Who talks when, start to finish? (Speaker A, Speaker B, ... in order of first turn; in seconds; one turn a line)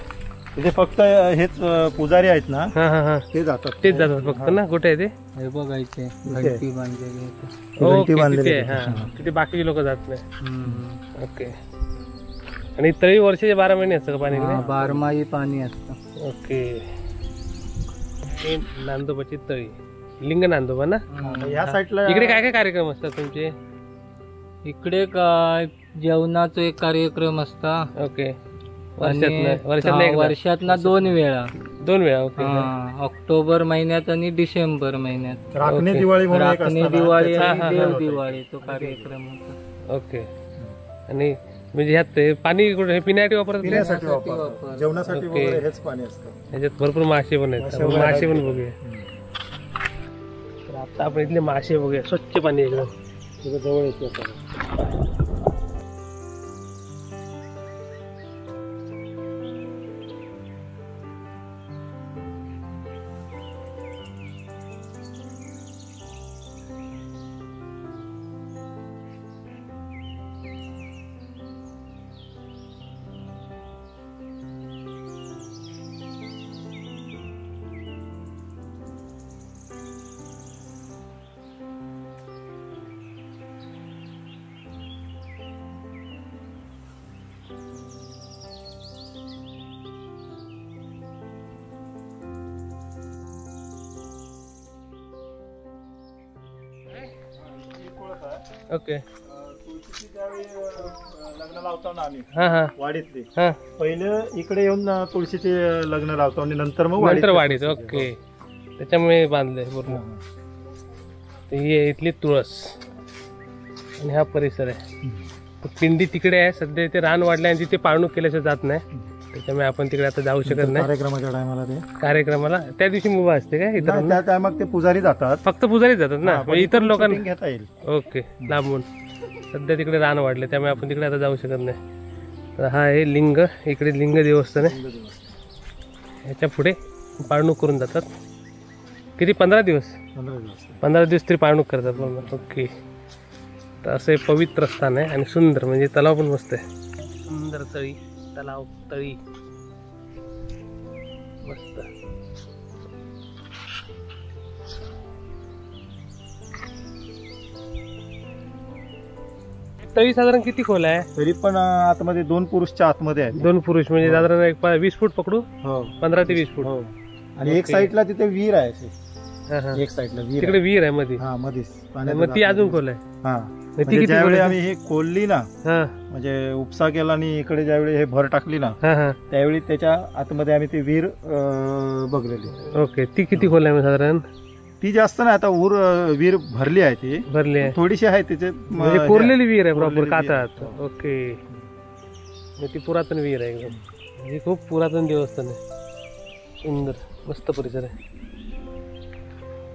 Speaker A: 0.6-2.7
Speaker B: 2.8-3.2
Speaker A: 3.3-4.6
Speaker B: 3.8-5.1
Speaker C: 5.4-7.5
Speaker A: 6.2-6.6
Speaker A: 7.8-9.1
Speaker B: 7.8-10.2
Speaker C: 10.4-11.0
Speaker B: 11.2-11.5
Speaker B: 12.8-14.9
Speaker C: 14.3-16.0
Speaker A: 14.5-14.9
Speaker B: 16.2-16.8
Speaker B: 18.3-21.0
Speaker C: 21.1-21.7
Speaker A: 21.2-22.5
Speaker B: 21.7-23.5
Speaker C: 24.6-27.9
Speaker B: 28.0-28.3
Speaker B: 29.0-31.1
Speaker C: 29.0-31.5
Speaker B: 31.8-32.7
Speaker C: 32.4-35.5
Speaker A: 35.5-39.1
Speaker B: 35.6-36.1
Speaker C: 36.3-39.6
Speaker B: 37.4-38.0
Speaker B: 39.9-40.3
Speaker B: 41.1-43.9
Speaker A: 43.6-46.3
Speaker C: 43.6-44.9
Speaker B: 45.1-45.6
Speaker B: 46.5-48.7
Speaker A: 47.6-49.1
Speaker B: 50.7-52.9
Speaker A: 53.4-54.5
Speaker A: 97.4-98.4
Speaker B: 98.7-99.0
Speaker A: 99.2-108.1
Speaker B: 102.3-102.7
Speaker B: 107.0-108.2
Speaker B: 108.8-110.0
Speaker A: 109.9-110.2
Speaker B: 111.5-112.7
Speaker B: 114.0-114.8
Speaker B: 115.6-120.9
Speaker A: 120.4-121.8
Speaker B: 122.0-124.2
Speaker A: 123.8-125.4
Speaker B: 125.4-127.3
Speaker A: 126.2-127.7
Speaker B: 127.9-128.8
Speaker B: 129.5-131.8
Speaker B: 132.6-134.8
Speaker A: 134.6-135.3
Speaker B: 136.3-138.1
Speaker B: 139.2-139.9
Speaker A: 140.2-140.8
Speaker B: 140.8-142.7
Speaker A: 141.9-142.4
Speaker B: 143.8-146.6
Speaker B: 147.3-149.2
Speaker B: 151.4-151.9
Speaker B: 159.8-161.1
Speaker A: 161.2-163.5
Speaker B: 163.4-165.4
Speaker A: 164.0-164.3
Speaker A: 165.6-168.9
Speaker B: 166.0-166.7
Speaker B: 167.4-167.9
Speaker B: 169.5-169.8
Speaker A: 169.7-170.6
Speaker B: 170.4-171.2
Speaker A: 171.2-175.5
Speaker B: 172.1-173.0
Speaker B: 173.8-174.6
Speaker B: 175.6-175.9
Speaker A: 176.1-178.8
Speaker B: 178.8-179.2
Speaker A: 179.3-182.6
Speaker B: 182.7-184.2
Speaker A: 184.8-190.8
Speaker B: 187.3-187.8
Speaker B: 188.7-191.4
Speaker B: 192.6-195.6
Speaker B: 196.6-197.9